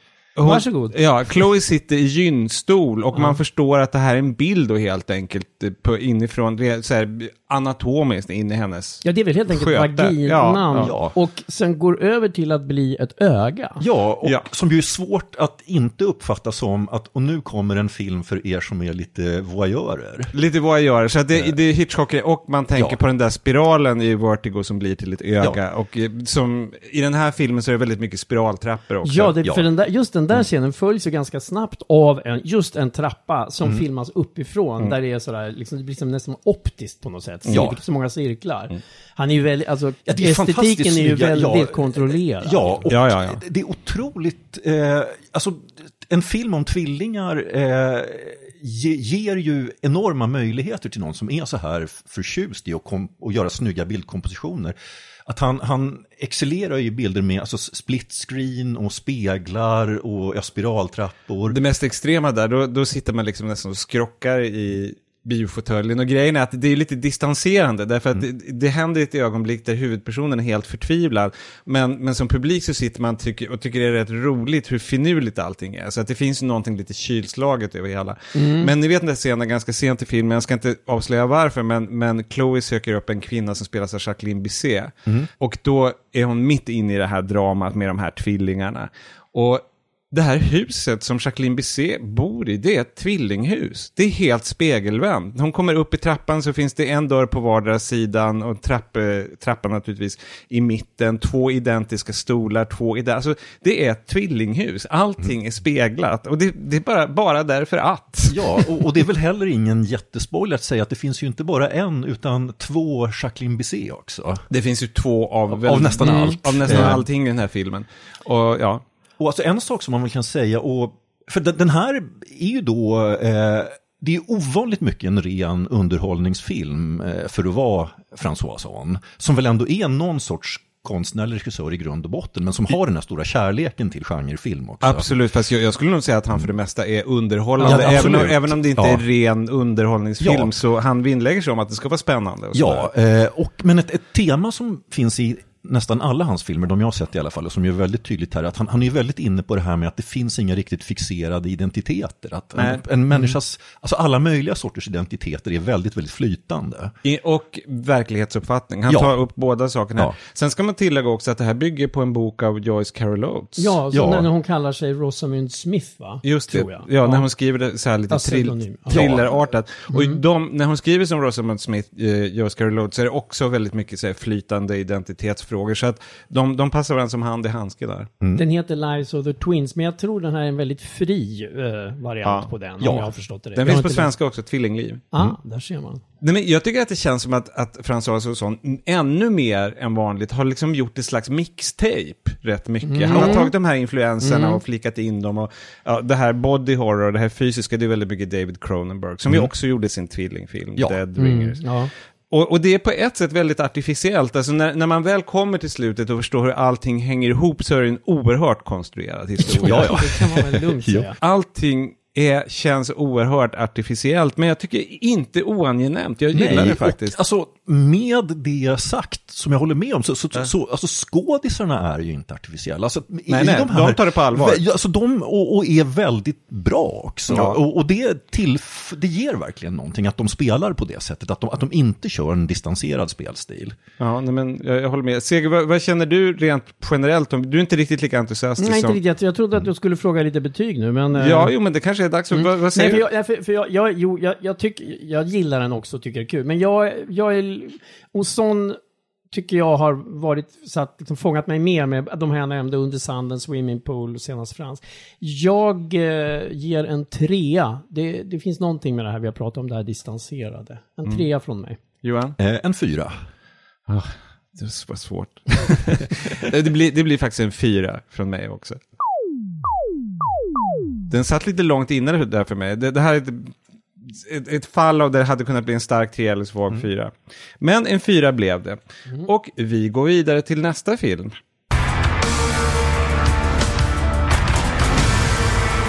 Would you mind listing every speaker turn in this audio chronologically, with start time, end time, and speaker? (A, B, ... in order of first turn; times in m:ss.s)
0:00.4-0:10.9 A
0:00.4-0:00.9 B
0:09.0-0:13.8 B
0:10.7-0:11.1 C
0:13.8-0:20.3 C
0:20.3-0:29.3 A
0:22.7-0:23.0 C
0:29.0-0:42.9 B
0:29.4-0:29.7 C
0:37.4-0:37.8 C
0:40.0-0:54.7 C
0:42.9-0:43.4 A
0:55.2-1:01.6 C
1:01.5-1:48.4 A
1:18.3-1:18.7 B
1:48.3-1:54.4 C
1:54.5-1:58.8 A
1:55.5-1:57.0 C
1:56.0-1:56.9 B
1:59.2-2:15.1 C
2:14.8-2:22.9 A
2:17.6-2:18.3 B
2:17.6-2:19.0 C
2:20.2-2:20.5 C
2:22.5-2:36.9 C
2:32.6-2:32.8 A
2:37.0-2:43.8 A
2:38.9-2:39.1 C
2:43.6-2:47.2 B
2:43.9-2:44.3 C
2:46.2-2:58.1 A
2:48.1-2:49.1 B
2:48.9-2:49.2 C
2:49.9-2:50.2 B
2:58.3-3:04.1 B
3:02.2-3:02.5 A
3:02.8-3:03.1 C
3:03.6-3:05.0 A
3:05.1-3:06.0 B
3:06.2-3:21.6 A
3:12.8-3:13.5 B
3:13.1-3:13.4 C
3:14.2-3:14.6 B
3:21.2-3:21.9 B
3:22.3-3:30.0 A
3:29.4-3:31.2 B
3:29.6-3:31.1 C
3:31.2-3:37.2 A
3:36.3-3:53.8 C
3:43.3-3:44.6 A
3:47.3-3:47.6 A
3:54.0-3:59.0 A
3:58.6-4:01.5 B
4:01.2-4:03.0 A
4:02.3-4:08.8 B
4:09.3-4:21.8 B
4:22.0-4:22.4 A
4:22.4-4:23.2 C
4:23.9-4:28.8 A
4:31.1-4:41.3 A